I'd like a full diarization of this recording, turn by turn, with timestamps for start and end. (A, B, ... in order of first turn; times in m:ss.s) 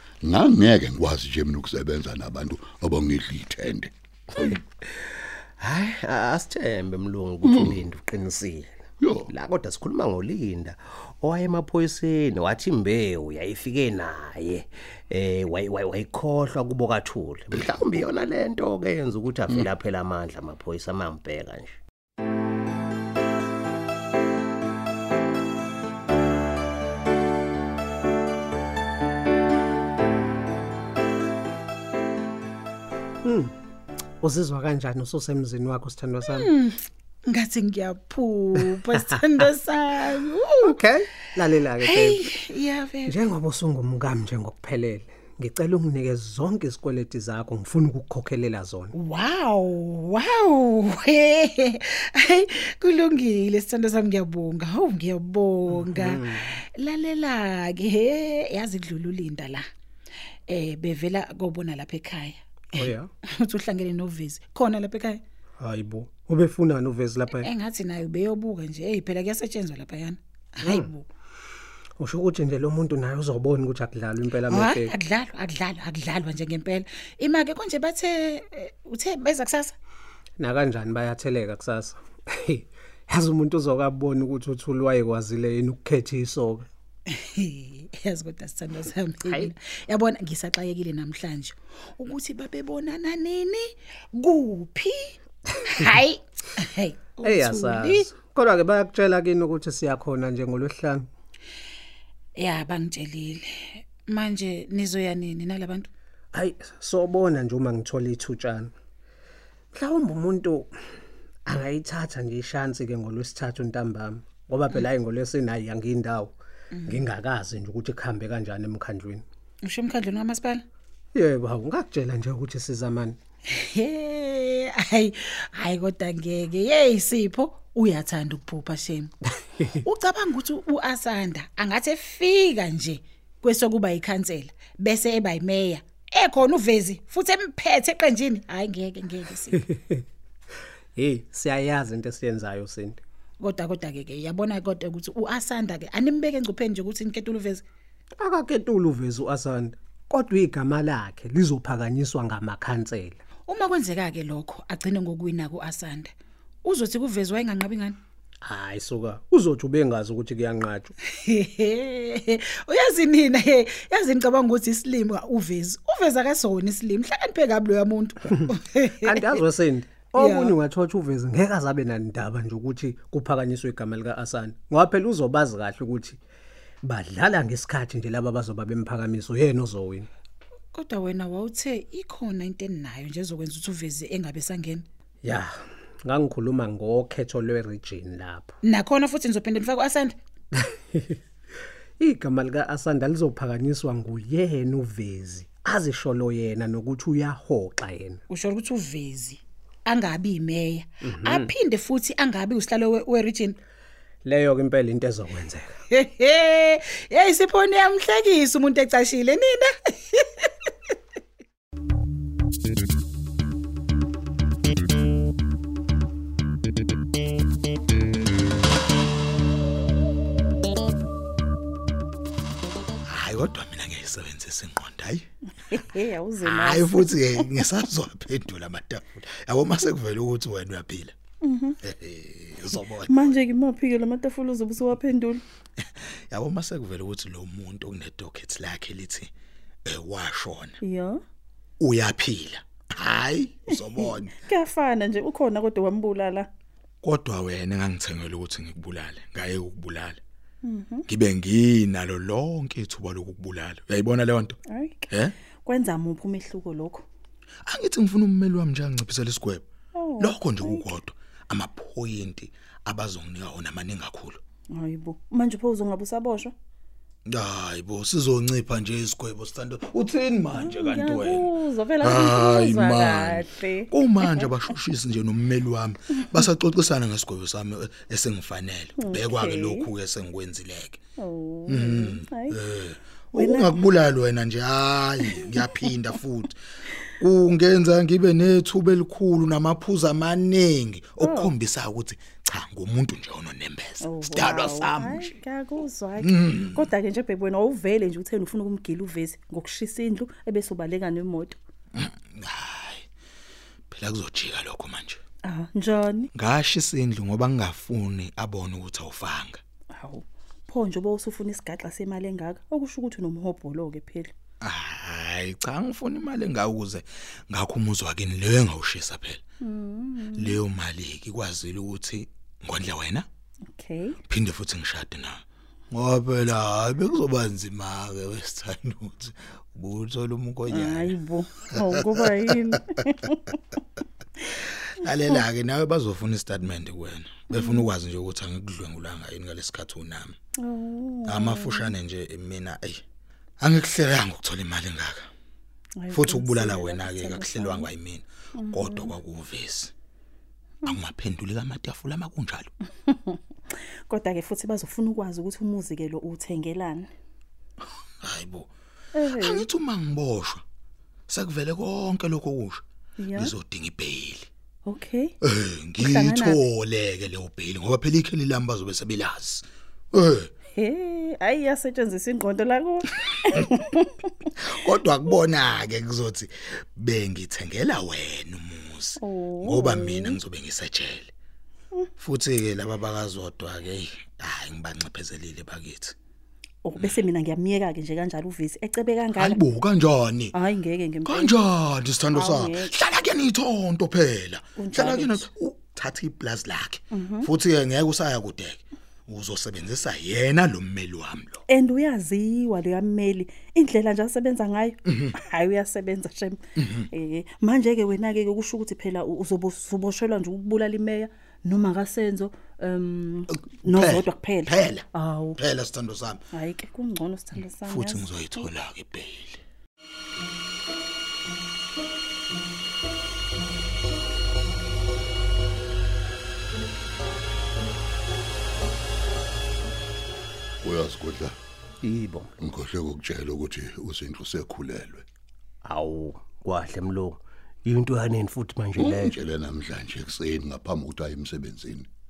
0:00.2-0:04.4 A
0:04.4-0:08.8 B
0:07.4-0:07.8 A
0:09.0-0:09.3 A
0:09.3-0:21.8 B
0:17.5-0:18.0 A
0:33.2-0:33.5 C
0:34.2-0:36.5 C
0:36.3-0:36.8 D
0:37.3-0:40.8 D
0:40.6-0:42.3 C
0:41.8-0:43.3 D
0:43.1-0:48.9 C
0:49.0-0:59.6 D
0:55.7-0:56.4 C
1:00.5-1:05.2 D
1:02.8-1:03.1 C
1:05.6-1:07.5 C
1:07.3-1:11.1 D
1:10.6-1:10.9 C
1:12.0-1:14.9 C
1:14.4-1:19.7 D
1:20.4-1:26.7 C
1:27.1-1:38.1 D
1:29.3-1:29.5 C
1:37.2-1:41.1 C
1:42.4-1:45.9 D
1:46.3-1:48.7 C
1:49.7-1:50.7 C
1:51.5-1:56.3 C
1:56.8-1:57.0 D
1:56.9-1:59.2 C
1:59.6-2:00.6 D
2:01.2-2:03.2 C
2:03.5-2:09.1 D
2:09.7-2:19.6 D
2:19.6-2:20.0 C
2:21.0-2:23.0 C
2:23.4-2:27.6 D
2:28.2-2:33.2 C
2:33.5-2:36.1 D
2:36.6-2:38.0 D
2:38.4-2:40.9 C
2:41.2-2:49.4 D
2:49.0-2:56.2 C
2:50.2-2:50.6 D
2:56.8-3:00.1 C
3:00.7-3:04.8 D
3:05.2-3:08.5 C
3:08.7-3:10.2 D
3:10.6-3:11.2 C
3:12.0-3:18.2 C
3:18.3-3:23.6 D
3:21.0-3:21.5 C
3:24.2-3:25.8 C
3:25.9-3:30.7 D
3:43.1-3:45.3 E
3:45.7-3:47.7 F
3:46.4-3:51.1 E
3:51.4-3:51.8 F
3:51.8-3:53.4 E
3:53.1-3:55.4 F
3:55.8-3:59.3 E
3:59.8-4:00.8 E
4:00.8-4:01.2 F
4:01.8-4:04.3 E
4:04.0-4:06.5 F
4:07.0-4:10.2 E
4:10.6-4:11.1 F
4:11.1-4:14.6 E
4:14.7-4:15.1 F
4:15.6-4:17.1 F
4:17.7-4:19.6 E
4:20.0-4:20.9 F
4:20.2-4:24.4 E
4:24.8-4:26.5 F
4:27.3-4:41.0 E
4:30.5-4:34.5 F
4:39.0-4:39.9 F
4:41.2-4:42.6 F
4:41.7-4:46.5 E
4:43.3-4:43.8 F
4:45.3-4:45.7 F
4:47.2-4:55.4 E
4:51.2-4:51.5 F
4:54.0-5:01.6 F
4:56.2-4:56.9 E
5:01.9-5:03.1 E
5:03.9-5:05.2 E
5:05.4-5:06.3 F
5:06.3-5:09.6 E
5:10.0-5:14.3 F
5:14.6-5:19.4 E
5:19.6-5:20.6 F
5:20.4-5:23.3 E
5:23.8-5:24.2 F
5:24.3-5:32.5 E
5:30.7-5:33.5 F
5:35.0-5:40.4 E
5:37.5-5:37.9 F
5:40.6-5:42.0 F
5:41.3-5:43.0 E
5:43.6-5:45.3 E
5:46.0-5:47.9 F
5:46.1-5:49.9 E
5:48.6-5:49.1 F
5:50.9-5:52.7 E
5:53.1-5:53.4 F
5:54.1-5:57.1 F
5:58.2-5:58.7 E
5:59.2-5:59.7 F
5:59.3-6:00.6 E
6:01.3-6:02.8 E
6:03.2-6:03.5 F
6:03.4-6:04.5 E
6:04.9-6:05.3 F
6:05.4-6:10.5 E
6:06.0-6:06.6 F
6:10.7-6:14.3 F
6:14.6-6:21.3 E
6:19.2-6:20.4 F
6:22.2-6:26.2 E
6:26.8-6:29.6 F
6:27.0-6:27.2 E
6:29.4-6:30.6 E
6:30.5-6:31.6 F
6:31.2-6:41.6 E
6:32.3-6:32.9 F
6:34.8-6:35.4 F
6:37.1-6:37.5 F
6:41.7-6:55.6 F
6:53.8-6:55.1 E
6:55.6-6:56.4 E
6:56.5-6:58.7 F
6:57.6-6:59.6 E
7:10.8-7:11.6 A
7:12.0-7:12.6 B
7:12.6-7:15.2 A
7:15.8-7:19.4 B
7:19.0-7:22.1 A